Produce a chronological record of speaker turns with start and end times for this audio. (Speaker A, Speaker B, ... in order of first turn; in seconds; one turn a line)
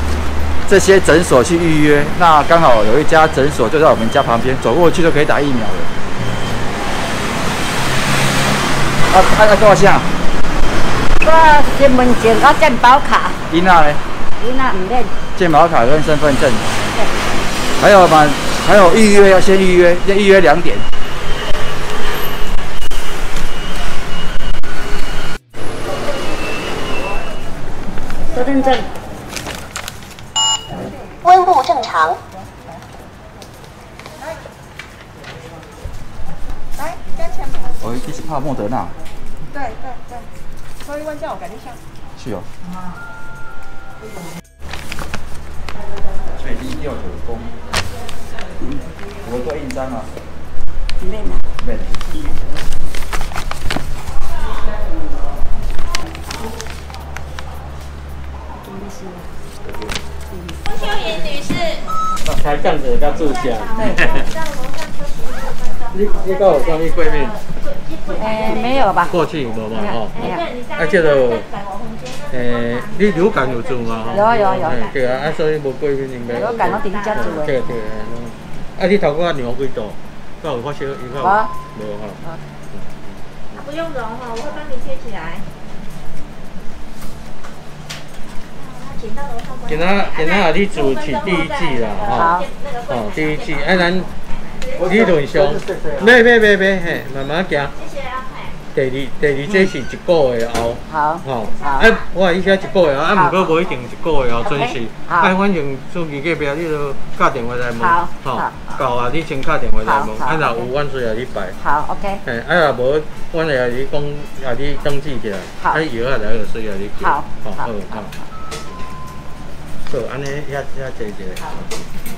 Speaker A: 0.7-5.9
Speaker A: 9.1-10.1
Speaker B: 11.2-13.4
Speaker A: 13.5-14.0
Speaker B: 14.4-15.2
Speaker A: 15.3-16.7
Speaker A: 17.8-20.9
Speaker B: 28.3-28.9
Speaker C: 36.8-37.8
Speaker A: 37.8-39.0
Speaker C: 39.5-40.2
Speaker C: 40.9-41.8
Speaker A: 42.2-42.5
Speaker A: 46.3-47.5
Speaker A: 49.2-50.1
Speaker B: 51.0-51.4
Speaker A: 51.6-52.0
Speaker B: 52.2-52.5
Speaker B: 58.6-59.3
Speaker D: 60.6-61.9
Speaker E: 62.2-64.3
Speaker D: 63.0-69.4
Speaker E: 65.9-67.4
Speaker B: 68.2-69.2
Speaker E: 69.1-71.5
Speaker D: 70.1-75.4
Speaker E: 72.3-82.2
Speaker B: 74.1-74.8
Speaker D: 76.3-77.5
Speaker B: 76.3-77.6
Speaker B: 81.2-81.5
Speaker E: 82.7-83.2
Speaker D: 83.5-85.5
Speaker D: 88.5-94.8
Speaker E: 89.7-92.3
Speaker B: 92.1-92.4
Speaker E: 92.9-94.1
Speaker E: 94.8-97.7
Speaker D: 97.7-98.6
Speaker E: 98.7-111.6
Speaker B: 100.9-102.0
Speaker D: 101.6-101.9
Speaker B: 103.1-103.5
Speaker B: 104.4-105.3
Speaker B: 107.8-108.7
Speaker B: 109.8-110.6
Speaker B: 111.6-112.2
Speaker E: 112.2-118.1
Speaker B: 117.0-117.4
Speaker E: 119.9-121.7